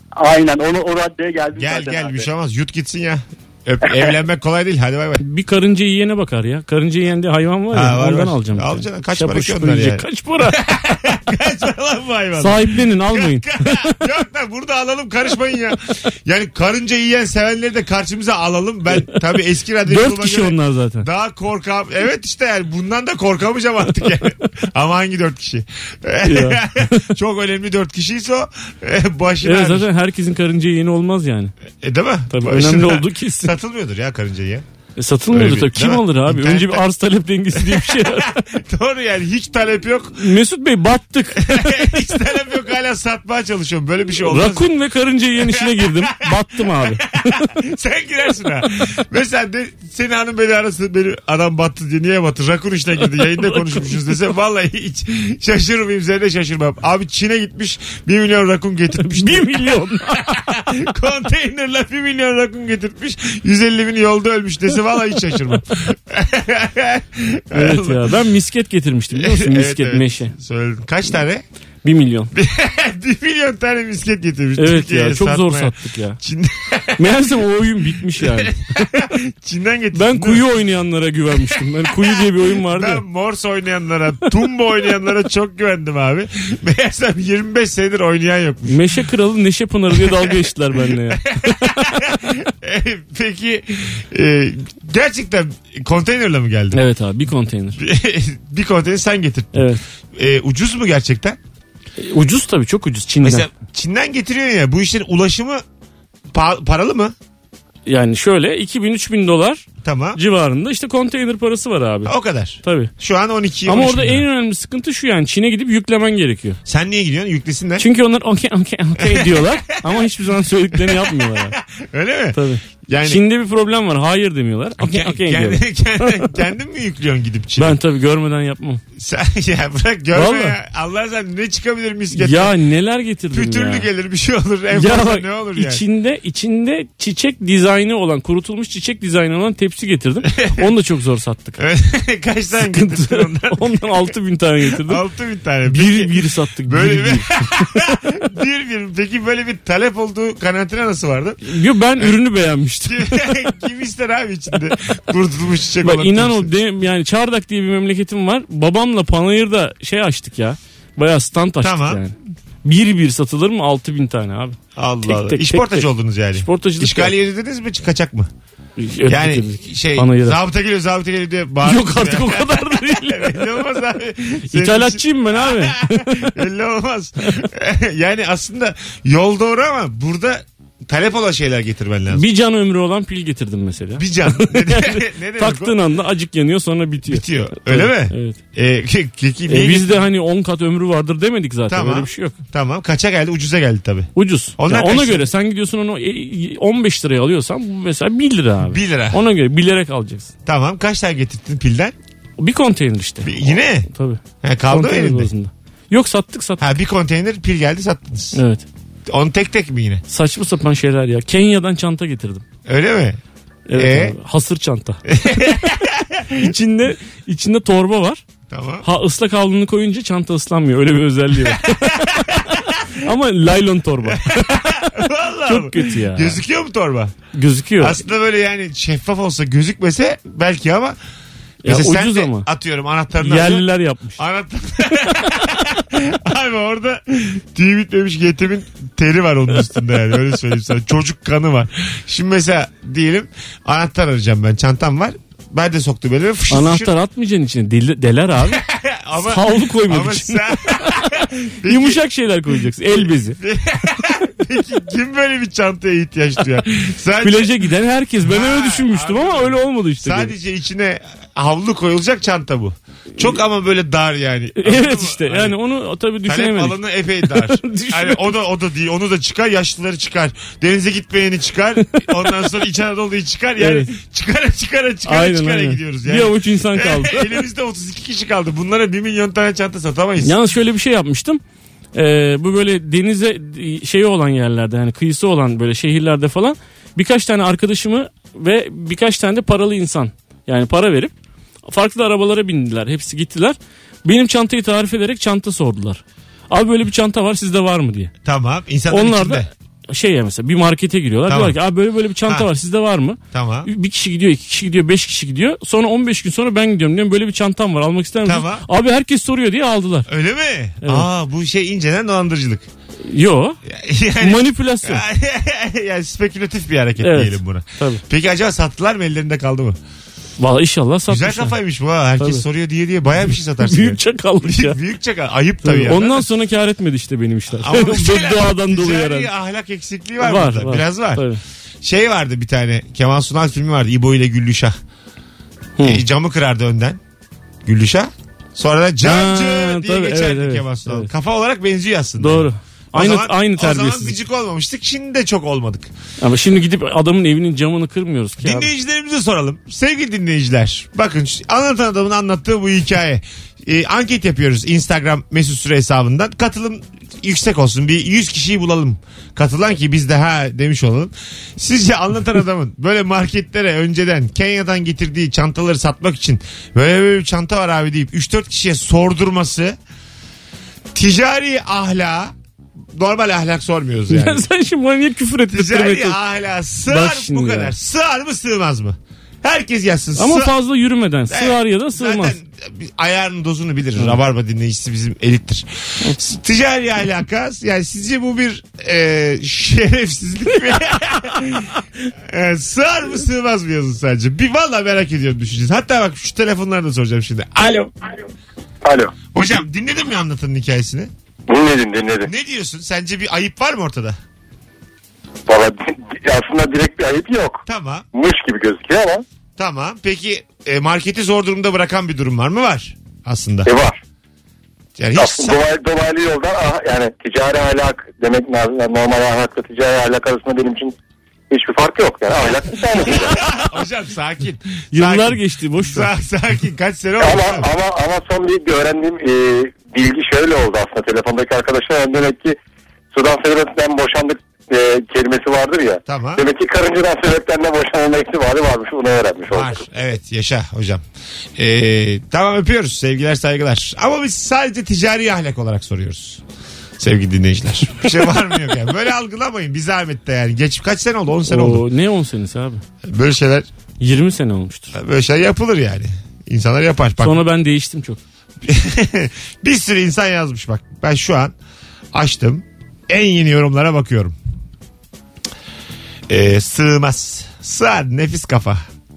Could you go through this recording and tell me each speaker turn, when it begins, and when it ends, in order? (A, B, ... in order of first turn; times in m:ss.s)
0:00.2-0:02.3 A
0:01.6-0:05.2 B
0:05.2-0:10.6 C
0:07.7-0:29.9 B
0:12.4-0:14.0 C
0:19.9-0:21.1 C
0:26.2-0:27.1 C
0:29.4-0:31.5 C
0:31.8-0:34.6 B
0:32.3-0:33.5 C
0:35.0-0:38.4 C
0:35.3-0:36.8 B
0:37.5-0:40.3 B
0:40.2-0:41.5 C
0:41.4-0:44.7 B
0:44.2-0:47.4 C
0:45.4-1:08.1 B
0:53.2-0:54.0 C
0:59.0-1:00.8 C
1:07.5-1:10.3 C
1:09.1-1:11.4 B
1:11.8-1:12.3 C
1:12.3-1:17.2 B
1:14.6-1:16.2 C
1:17.0-1:19.1 C
1:18.2-1:20.4 B
1:20.0-1:23.0 C
1:21.5-1:28.8 B
1:28.7-1:32.3 C
1:30.0-1:30.4 B
1:31.1-1:36.8 B
1:36.7-1:37.8 C
1:37.8-1:41.4 B
1:39.6-1:39.8 C
1:42.0-1:43.5 C
1:43.2-1:45.6 B
1:46.3-1:47.2 B
1:47.9-1:49.6 C
1:49.8-1:50.2 B
1:50.2-1:52.9 C
1:52.1-1:54.2 B
1:53.7-1:56.6 C
1:56.7-1:57.9 B
1:57.8-2:01.6 C
1:59.0-2:03.2 B
2:02.3-2:06.4 C
2:04.8-2:07.8 B
2:07.6-2:08.8 C
2:09.0-2:12.5 B
2:10.1-2:10.6 C
2:12.1-2:13.9 C
2:13.3-2:15.8 B
2:14.7-2:21.6 C
2:20.4-2:20.7 B
2:21.6-2:24.0 B
2:22.7-2:25.0 C
2:24.8-2:31.4 B
2:25.7-2:27.8 C
2:31.4-2:33.3 C
2:32.9-2:36.5 B
2:35.8-2:47.1 C
2:41.6-2:42.0 B
2:44.8-2:48.3 B
2:48.8-2:50.4 C
2:49.1-3:02.2 B
2:51.6-2:53.6 C
2:54.5-2:56.4 C
3:02.1-3:08.4 C
3:04.0-3:05.7 B
3:07.1-3:10.0 B
3:09.5-3:12.4 C
3:11.7-3:15.3 B
3:14.2-3:20.3 C
3:18.6-3:19.2 B
3:20.5-3:22.0 B
3:22.4-3:26.6 C
3:23.2-3:23.9 B
3:24.4-3:25.3 B
3:26.6-3:28.4 B
3:28.4-3:28.6 C
3:29.1-3:30.0 B
3:30.1-3:32.4 C
3:32.7-3:33.2 B
3:33.7-3:35.7 C
3:33.7-3:34.2 B
3:35.1-3:36.5 B
3:36.4-3:38.2 C
3:38.5-3:38.9 B
3:38.8-3:46.4 C
3:41.4-3:43.0 B
3:44.0-3:47.2 B
3:47.3-3:48.0 C
3:47.8-3:51.0 B
3:51.6-3:52.5 C
3:51.6-3:53.7 B
3:53.2-3:54.2 C
3:54.2-4:06.9 B
4:06.5-4:08.6 C
4:08.4-4:12.0 B
4:09.2-4:13.4 C
4:13.0-4:17.5 B
4:17.2-4:20.3 C
4:18.2-4:25.6 B
4:24.6-4:28.3 C
4:26.2-4:40.4 B
4:31.9-4:32.3 C
4:33.6-4:33.9 C
4:35.1-4:37.4 C
4:40.2-4:41.4 C
4:42.0-4:51.1 C
4:51.7-4:58.1 C
4:58.2-4:59.5 B
4:58.9-5:10.1 C
5:01.3-5:01.6 B
5:03.3-5:03.7 B
5:08.2-5:08.6 B
5:10.1-5:12.7 B
5:13.1-5:13.6 C
5:13.7-5:19.8 B
5:14.2-5:15.0 C
5:17.0-5:18.0 C
5:20.4-5:21.6 C
5:21.1-5:26.3 B
5:22.2-5:22.4 C
5:23.6-5:24.8 C
5:25.6-5:29.3 C
5:27.5-5:31.2 B
5:30.2-5:31.4 C
5:31.8-5:34.8 B
5:35.8-5:36.0 C
5:35.8-5:37.0 B
5:37.6-5:45.9 B
5:39.0-5:41.1 C
5:42.2-5:44.2 C
5:46.2-5:48.7 C
5:48.4-6:09.8 B
6:10.9-6:12.3 B
6:13.0-6:14.5 B
6:14.1-6:16.2 C
6:15.5-6:20.5 B
6:16.9-6:17.7 C
6:20.2-6:22.4 C
6:21.3-6:37.9 B
6:38.8-6:39.2 D
6:39.3-6:41.1 B
6:41.5-6:42.3 D
6:42.2-6:44.2 B
6:45.5-6:49.2 D
6:47.7-6:48.1 B
6:49.6-6:53.7 B
6:53.7-6:54.0 D
6:55.0-6:55.6 B
6:55.2-7:01.0 D
7:01.5-7:03.4 D
7:03.0-7:07.7 B
7:04.9-7:06.1 C
7:07.2-7:12.6 D
7:13.1-7:19.8 D
7:16.1-7:16.4 B
7:19.5-7:21.0 B
7:21.6-7:26.4 B
7:27.0-7:31.8 B
7:31.5-7:32.8 C
7:33.0-7:33.7 B
7:34.0-7:34.9 C
7:34.9-7:37.4 B
7:37.2-7:38.2 C
7:38.6-7:41.5 B
7:42.1-7:44.4 B
7:46.3-7:48.8 B